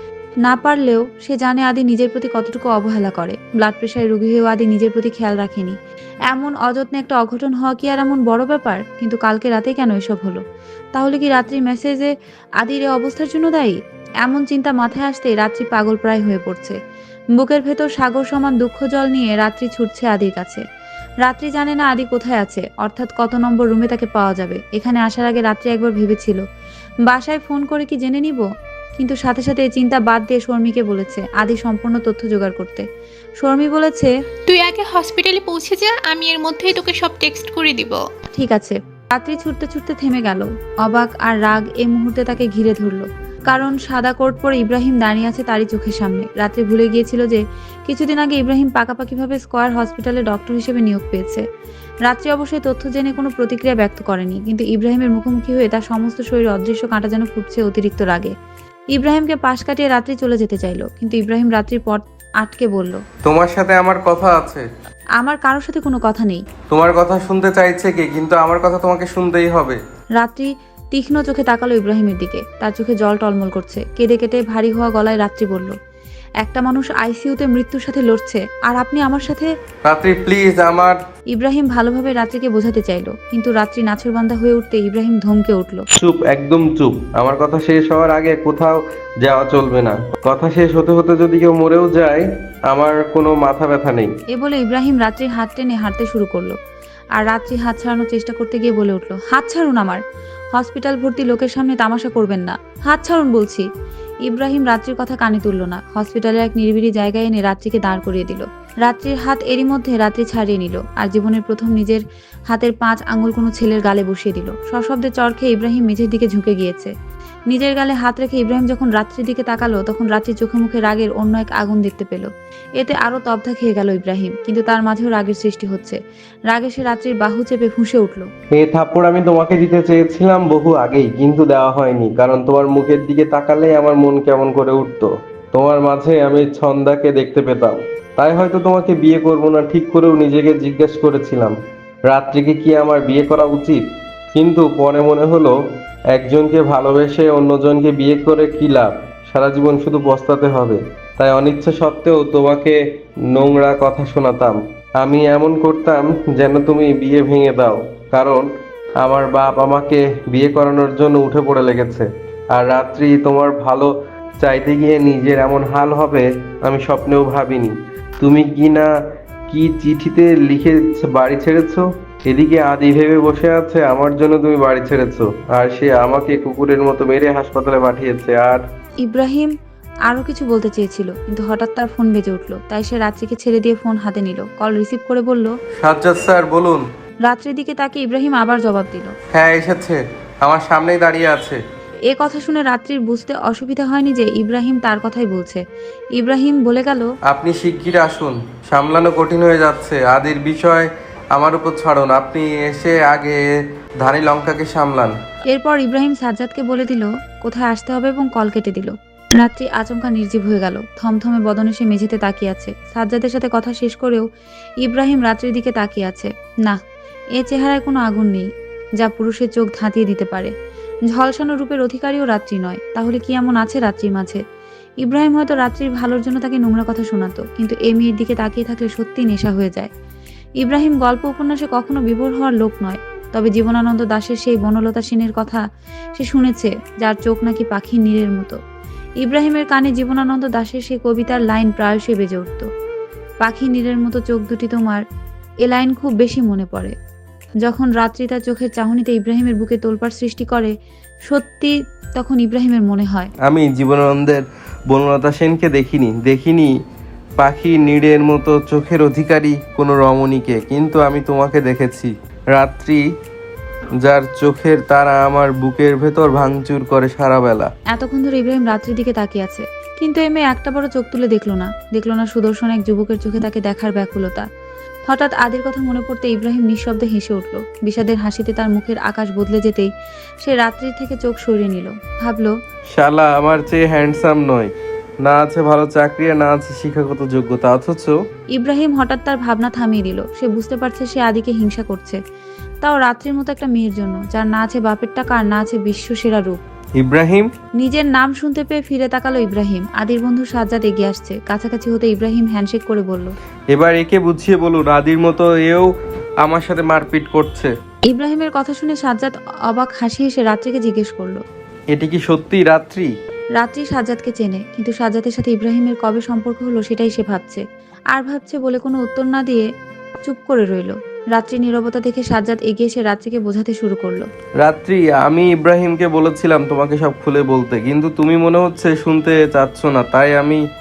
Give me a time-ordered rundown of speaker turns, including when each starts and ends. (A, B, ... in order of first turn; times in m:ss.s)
0:00.4-0:05.8 A
0:06.3-0:10.4 A
0:10.9-0:16.8 A
0:17.4-0:20.6 A
0:21.2-0:26.4 A
0:27.0-0:28.4 A
0:29.0-0:32.8 A
0:33.4-0:34.1 A
0:34.5-0:38.0 B
0:38.3-0:51.4 A
0:52.0-0:58.3 A
0:58.9-1:03.0 A
1:03.2-1:04.7 C
1:05.2-1:06.4 A
1:06.7-1:09.8 C
1:10.2-1:15.8 A
1:16.4-1:19.5 A
1:19.8-1:21.0 C
1:21.3-1:25.8 A
1:25.9-1:34.1 C
1:34.3-1:36.6 A
1:37.2-1:40.0 A
1:40.5-1:43.6 A
1:44.2-1:56.9 A
1:57.5-2:06.0 A
2:06.5-2:08.3 A
2:08.5-2:21.5 C
2:22.1-2:23.8 C
2:24.3-2:25.5 C
2:26.1-2:32.8 C
2:33.3-2:38.5 C
2:39.0-2:48.9 C
2:49.5-2:58.6 C
2:59.0-2:59.5 A
3:00.1-3:05.6 A
3:05.8-3:06.8 C
3:07.2-3:09.1 A
3:09.3-3:11.6 C
3:12.1-3:15.6 A
3:16.2-3:17.1 A
3:17.3-3:23.4 C
3:24.0-3:25.1 C
3:25.5-3:34.2 A
3:34.8-3:36.8 A
3:37.4-3:40.5 A
3:41.1-3:44.4 A
3:45.0-3:49.9 A
3:50.6-3:55.6 A
3:56.2-3:58.6 A
3:59.2-4:02.7 A
4:03.4-4:05.0 A
4:05.6-4:06.9 A
4:07.6-4:10.7 A
4:11.3-4:13.3 A
4:13.4-4:16.7 C
4:17.4-4:23.0 C
4:24.0-4:27.7 C
4:27.9-4:34.5 A
4:35.1-4:39.9 A
4:40.4-4:42.5 A
4:42.9-4:44.7 C
4:45.2-4:48.2 C
4:48.5-4:52.2 A
4:52.8-4:56.6 A
4:57.0-4:57.5 C
4:57.8-5:03.3 A
5:03.7-5:05.9 C
5:06.4-5:07.7 C
5:08.1-5:11.4 A
5:11.9-5:13.1 C
5:13.6-5:19.6 A
5:20.2-5:24.3 A
5:24.6-5:30.6 C